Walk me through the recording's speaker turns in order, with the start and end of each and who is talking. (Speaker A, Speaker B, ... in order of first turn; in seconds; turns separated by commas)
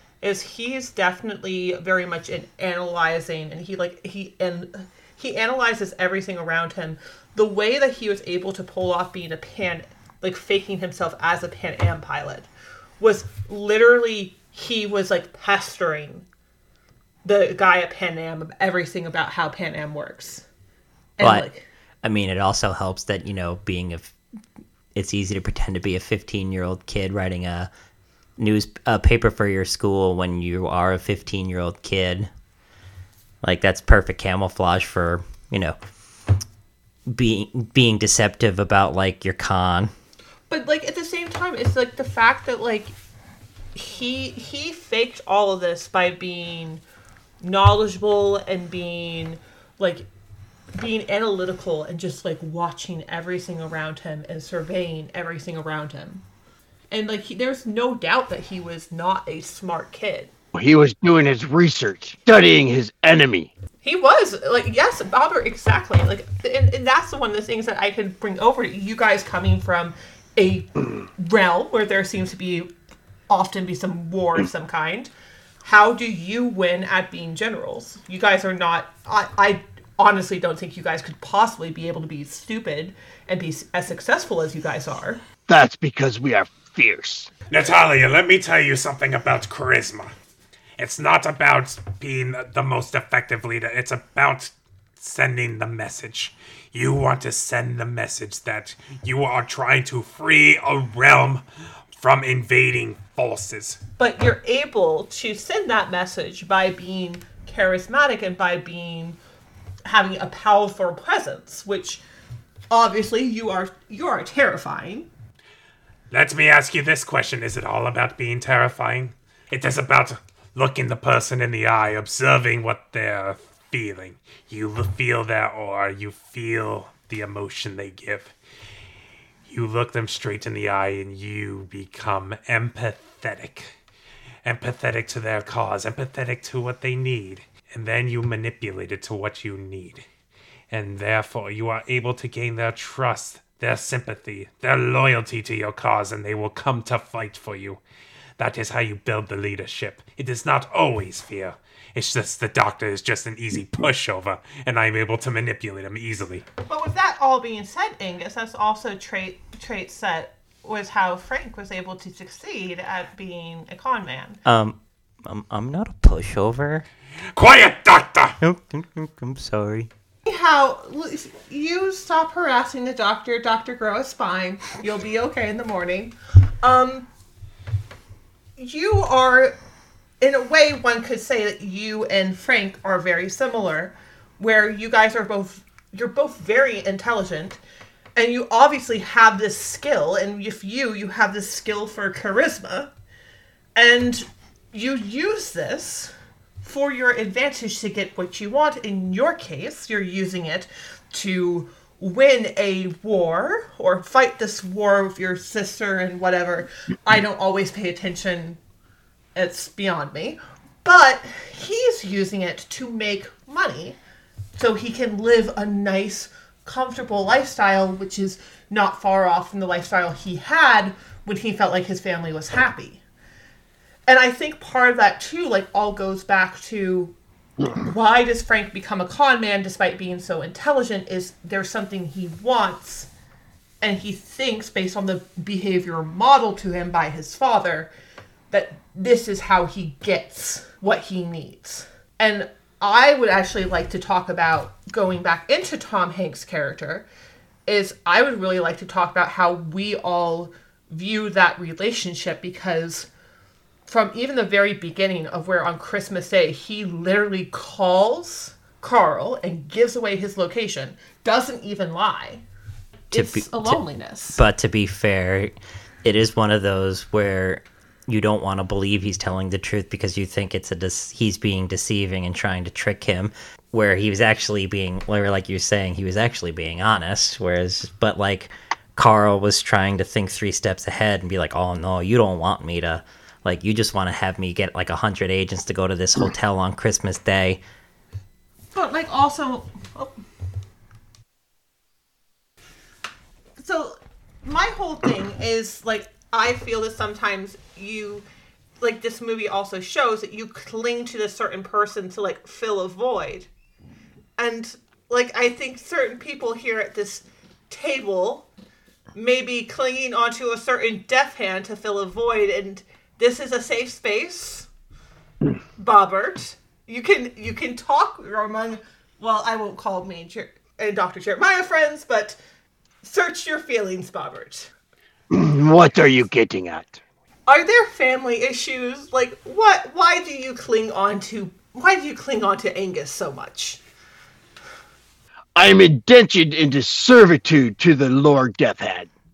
Speaker A: 0.2-12.5, Speaker A: 13.0-16.2, Speaker A: 17.2-20.4, Speaker A: 21.2-21.6, Speaker B: 21.2-21.5, Speaker B: 22.0-24.1, Speaker B: 24.9-27.7, Speaker B: 28.4-32.3, Speaker B: 33.4-35.8, Speaker B: 37.1-39.9, Speaker A: 40.5-42.9, Speaker A: 43.7-46.8, Speaker A: 47.4-50.1, Speaker A: 50.7-56.2, Speaker A: 56.9-60.3, Speaker C: 60.5-63.5, Speaker A: 63.8-72.7, Speaker A: 73.3-75.1, Speaker A: 75.6-85.2, Speaker C: 85.5-87.3, Speaker D: 87.5-90.1, Speaker D: 90.8-101.4, Speaker D: 102.0-103.8, Speaker A: 104.0-109.2, Speaker A: 109.8-112.0, Speaker A: 112.7-115.1, Speaker D: 116.1-128.3, Speaker D: 129.5-133.7, Speaker D: 134.4-140.0, Speaker D: 140.7-147.8, Speaker D: 148.4-156.4, Speaker A: 156.6-164.4, Speaker B: 164.4-166.8, Speaker D: 167.3-168.4, Speaker B: 168.4-169.9, Speaker A: 170.2-177.1, Speaker A: 178.6-179.6, Speaker A: 180.2-187.6, Speaker A: 188.2-192.9, Speaker A: 193.8-208.6, Speaker A: 209.3-214.0, Speaker A: 214.6-223.0, Speaker A: 224.1-227.1, Speaker A: 227.7-233.1, Speaker A: 233.8-237.9, Speaker A: 238.5-247.0, Speaker A: 247.7-253.1, Speaker A: 253.9-262.4, Speaker A: 263.1-264.4, Speaker B: 263.1-263.8, Speaker B: 264.3-287.6, Speaker A: 288.7-290.2, Speaker A: 293.6-298.2, Speaker A: 298.8-303.5, Speaker A: 304.4-308.5, Speaker A: 309.1-314.7, Speaker A: 315.8-322.4, Speaker A: 323.0-324.7, Speaker C: 325.3-327.0, Speaker A: 327.5-333.8, Speaker C: 335.6-339.1